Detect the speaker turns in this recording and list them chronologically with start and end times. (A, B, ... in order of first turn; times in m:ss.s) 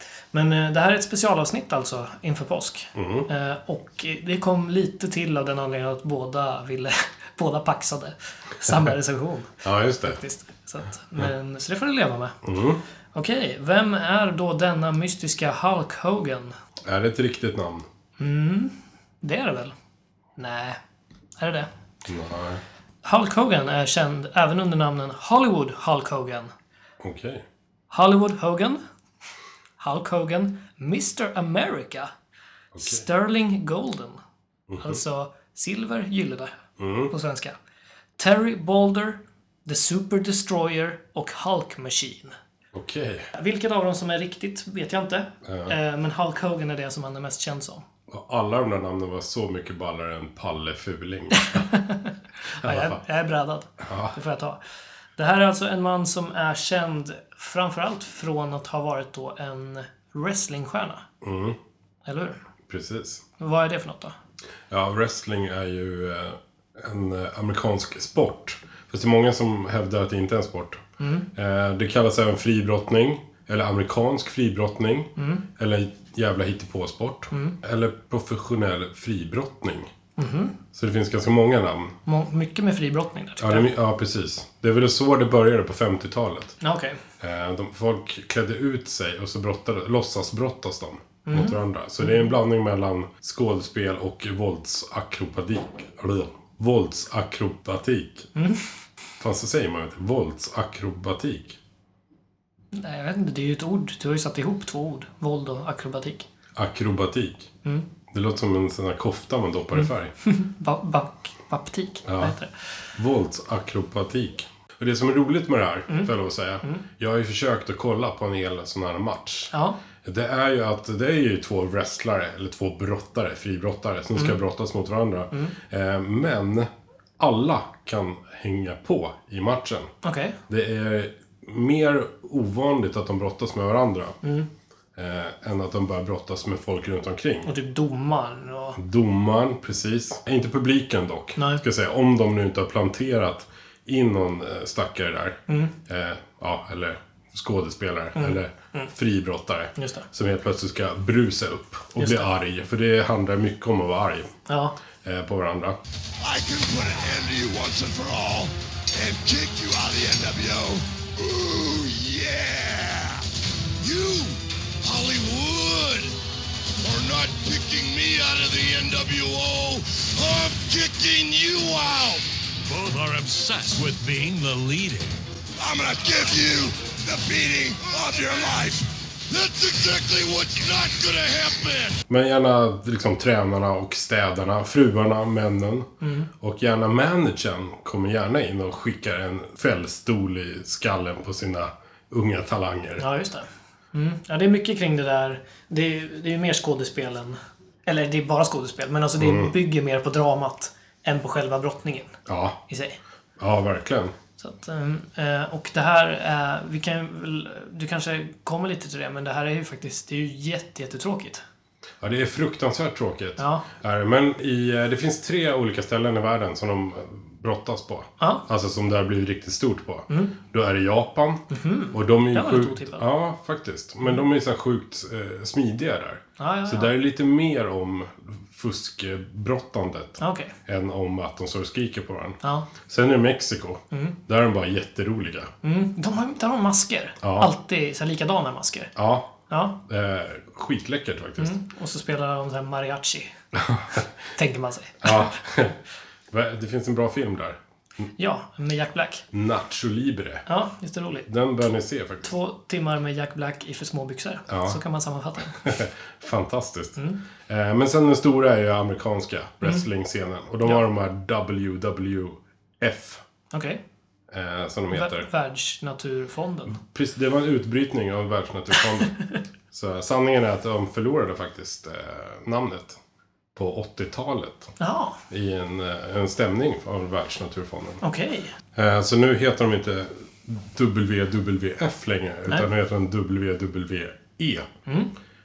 0:00.3-0:12.4 A
0:02.9-0:03.3 B
0:09.6-0:10.2 B
0:12.4-0:12.8 B
0:13.1-0:16.5 A
0:16.8-0:17.9 B
0:18.2-0:19.7 A
0:20.4-0:20.8 A
0:21.4-0:21.7 A
0:22.0-0:22.6 B
0:23.0-0:26.5 A
0:27.0-0:27.4 B
0:27.9-0:28.8 A
0:29.8-0:32.1 A
0:32.7-0:33.0 B
0:32.8-0:34.2 A
0:34.7-0:35.0 B
0:34.8-0:36.5 A
0:36.8-0:37.1 B
0:37.1-0:37.6 A
0:38.2-0:42.3 A
0:42.7-0:43.3 B
0:43.3-0:47.8 A
0:45.4-0:45.7 B
0:48.1-0:51.7 B
0:51.4-0:54.6 A
0:52.6-0:53.0 B
0:53.8-0:54.2 B
0:55.2-1:01.0 A
1:01.2-1:01.6 B
1:02.0-1:02.4 A
1:02.7-1:03.2 B
1:03.4-1:04.2 A
1:04.7-1:10.8 B
1:11.0-1:11.3 A
1:11.3-1:19.9 B
1:15.2-1:15.4 A
1:17.3-1:17.6 A
1:20.2-1:20.6 A
1:20.7-1:22.0 B
1:22.0-1:23.7 A
1:23.4-1:26.6 B
1:26.6-1:27.0 A
1:27.2-1:38.3 B
1:31.2-1:32.3 A
1:38.3-1:38.6 A
1:39.2-1:41.6 B
1:42.7-1:46.3 A
1:46.6-1:47.5 B
1:48.1-1:50.1 B
1:49.7-1:52.5 A
1:52.0-1:52.3 B
1:52.9-2:09.9 B
1:59.5-1:59.8 A
2:10.0-2:10.4 A
2:10.5-2:14.2 B
2:14.2-2:14.5 A
2:15.0-2:17.5 B
2:17.4-2:18.8 A
2:18.8-2:34.3 B
2:21.4-2:21.6 A
2:25.5-2:25.7 A
2:28.2-2:28.9 A
2:29.8-2:30.0 A
2:32.0-2:32.3 A
2:34.5-2:34.8 A
2:35.0-2:35.8 B
2:36.2-2:43.2 C
2:43.8-2:46.1 C
2:46.8-2:52.2 C
2:52.6-2:55.2 D
2:55.6-3:02.0 C
3:02.1-3:13.0 B
3:06.0-3:06.3 A
3:13.0-3:23.0 A
3:19.2-3:19.5 B
3:22.2-3:22.6 B
3:23.4-3:24.1 B
3:24.4-3:31.4 A
3:32.0-3:55.5 B
3:33.4-3:33.6 A
3:38.2-3:38.4 A
3:40.1-3:40.3 A
3:41.5-3:43.0 A
3:46.4-3:46.9 A
3:50.2-3:50.5 A
3:52.4-3:52.7 A
3:53.9-3:54.2 A
3:55.6-3:58.9 A
3:57.2-3:57.5 B
3:58.9-4:01.6 B
3:59.5-3:59.8 A
4:01.4-4:03.3 A
4:03.5-4:04.0 B
4:04.3-4:05.3 A
4:05.0-4:05.8 B
4:06.3-4:07.6 B
4:08.2-4:09.3 A
4:09.3-4:10.4 B
4:10.4-4:11.3 A
4:11.3-4:12.3 B
4:12.2-4:15.7 A
4:14.5-4:14.8 B
4:15.5-4:23.2 B
4:23.5-4:23.8 A
4:24.3-4:25.3 B
4:24.9-4:26.8 A
4:26.7-4:29.2 B
4:29.7-4:33.0 B
4:33.5-4:34.7 B
4:34.8-4:35.2 A
4:35.3-4:38.0 B
4:38.0-4:38.5 A
4:38.7-4:44.7 B
4:44.8-4:45.1 A